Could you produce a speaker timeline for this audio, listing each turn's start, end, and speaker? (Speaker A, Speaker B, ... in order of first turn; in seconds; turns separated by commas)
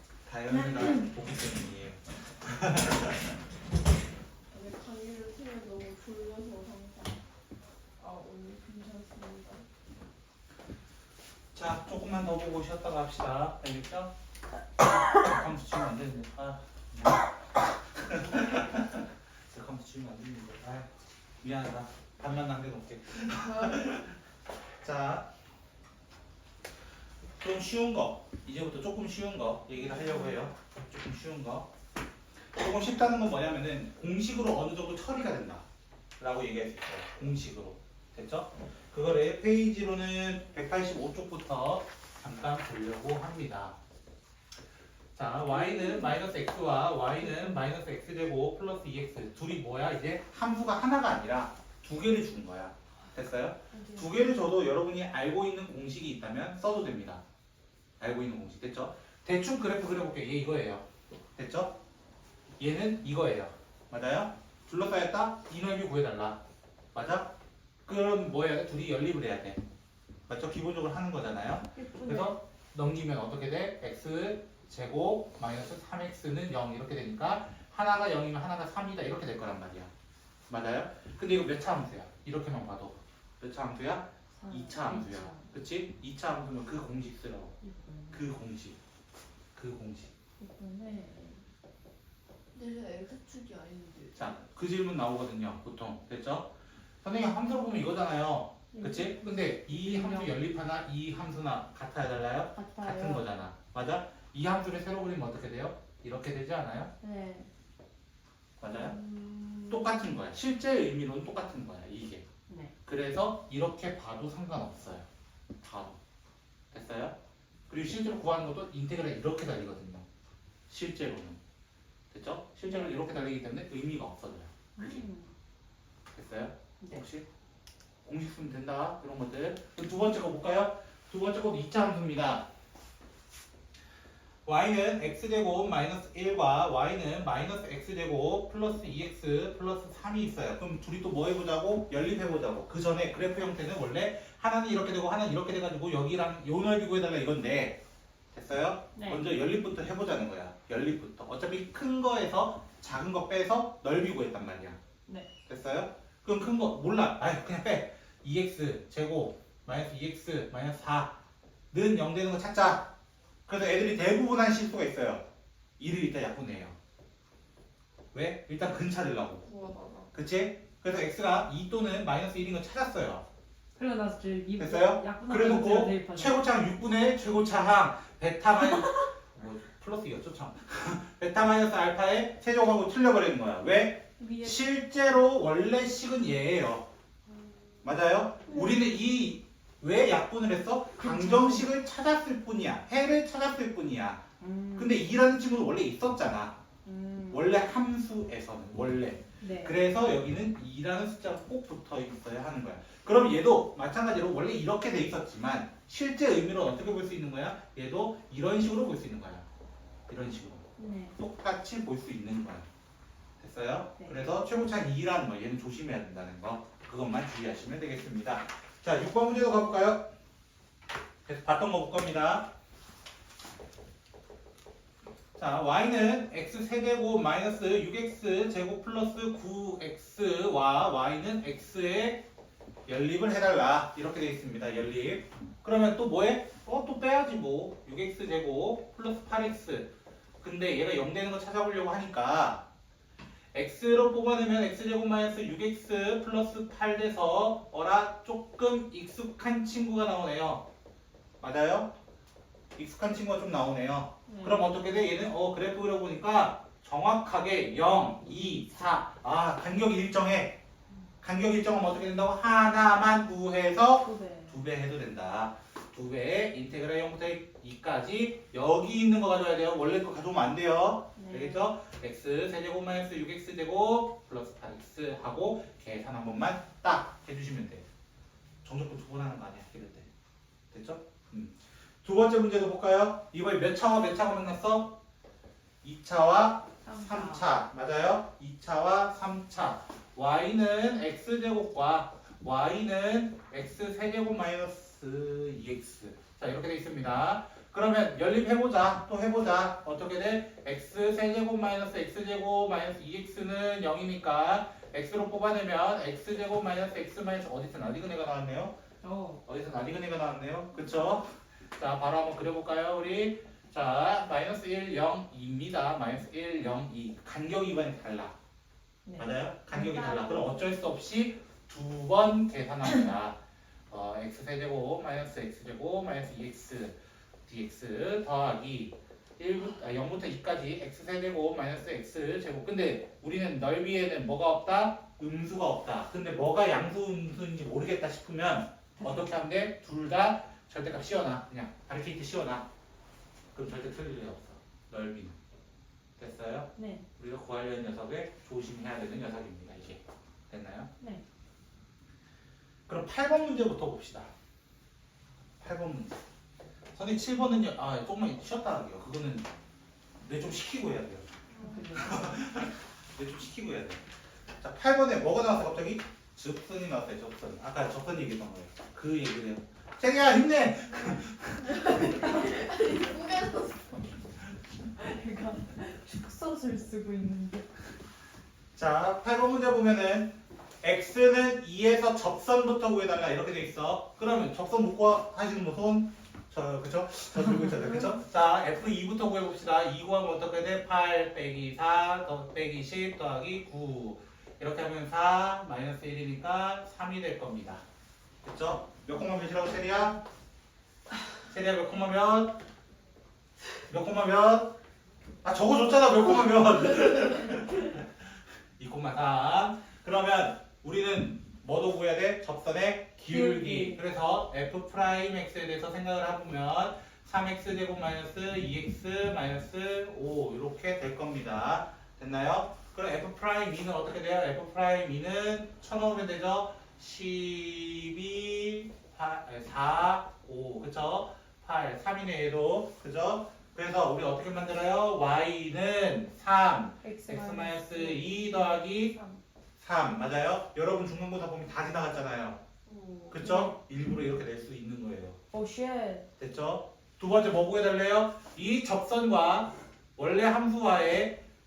Speaker A: 0.2-3.4, Speaker B: 0.5-1.1, Speaker C: 4.5-7.2, Speaker C: 8.0-9.6, Speaker A: 11.5-14.1, Speaker A: 15.0-20.9, Speaker A: 21.4-24.1, Speaker A: 24.8-25.3, Speaker A: 27.4-31.7, Speaker B: 29.9-30.4, Speaker A: 32.5-35.6, Speaker A: 36.2-43.7, Speaker A: 45.1-57.2, Speaker B: 45.5-46.2, Speaker B: 47.2-47.6, Speaker B: 53.7-54.2, Speaker A: 58.0-60.8, Speaker A: 61.4-61.7, Speaker A: 62.6-66.4, Speaker A: 66.9-67.3, Speaker A: 67.8-69.6, Speaker A: 70.3-79.9, Speaker B: 71.7-72.4, Speaker A: 80.5-87.6, Speaker B: 84.3-85.5, Speaker B: 87.6-88.3, Speaker A: 88.1-88.8, Speaker A: 89.5-90.1, Speaker B: 90.4-91.5, Speaker C: 92.5-94.1, Speaker A: 94.1-96.5, Speaker A: 97.0-106.9, Speaker B: 98.7-100.4, Speaker B: 102.5-103.2, Speaker B: 107.0-107.5, Speaker A: 108.6-109.0, Speaker B: 108.7-110.1, Speaker A: 109.7-112.2, Speaker B: 112.5-112.7, Speaker A: 112.8-115.1, Speaker A: 115.6-116.0, Speaker A: 116.7-117.2, Speaker A: 117.7-120.0, Speaker A: 120.7-121.4, Speaker A: 122.1-125.0, Speaker B: 122.7-123.0, Speaker B: 124.8-125.3, Speaker A: 126.1-127.2, Speaker A: 128.0-132.4, Speaker A: 134.4-147.8, Speaker A: 148.3-154.8, Speaker B: 148.9-149.2, Speaker A: 155.4-161.1, Speaker A: 161.7-162.9, Speaker A: 163.5-165.2, Speaker A: 165.8-166.8, Speaker A: 168.1-169.5, Speaker C: 169.5-170.1, Speaker A: 170.1-173.2, Speaker B: 173.8-176.5, Speaker A: 174.6-186.8, Speaker B: 184.2-184.7, Speaker A: 187.8-194.2, Speaker B: 188.5-188.8, Speaker B: 190.9-191.7, Speaker B: 194.4-195.0, Speaker A: 194.8-196.6, Speaker B: 196.8-197.5, Speaker A: 197.3-209.4, Speaker B: 199.4-199.8, Speaker A: 210.1-212.7, Speaker B: 210.8-211.2, Speaker A: 213.4-220.0, Speaker B: 214.0-214.2, Speaker A: 221.2-222.5, Speaker A: 225.3-232.2, Speaker A: 232.9-242.6, Speaker A: 243.5-250.7, Speaker A: 251.4-251.9, Speaker A: 252.8-260.6, Speaker B: 254.3-254.8, Speaker A: 261.2-277.8, Speaker B: 264.0-264.6, Speaker B: 271.1-271.7, Speaker A: 278.6-280.1, Speaker A: 280.7-285.0, Speaker A: 285.8-308.8, Speaker B: 286.8-287.5, Speaker B: 309.0-309.4, Speaker A: 309.4-318.3, Speaker B: 319.0-320.4, Speaker A: 319.2-323.4, Speaker A: 323.9-342.6, Speaker B: 338.9-339.3, Speaker A: 343.5-345.4, Speaker A: 346.2-350.9, Speaker B: 346.8-347.1, Speaker A: 352.9-354.3, Speaker A: 355.6-356.2, Speaker A: 356.9-359.5, Speaker A: 360.2-361.3, Speaker C: 361.5-361.8, Speaker B: 361.6-362.3, Speaker A: 361.9-364.0, Speaker A: 364.6-372.1, Speaker C: 371.8-374.0, Speaker B: 371.9-372.9, Speaker B: 375.0-377.6, Speaker A: 378.7-397.8, Speaker B: 387.8-388.1, Speaker A: 398.4-400.2, Speaker A: 401.5-402.6, Speaker A: 403.9-404.7, Speaker A: 405.4-408.1, Speaker A: 408.8-439.1, Speaker B: 413.3-414.0, Speaker B: 437.0-439.4, Speaker A: 439.8-442.6, Speaker B: 442.9-443.8, Speaker A: 443.3-445.4, Speaker B: 445.5-446.3, Speaker A: 446.4-451.4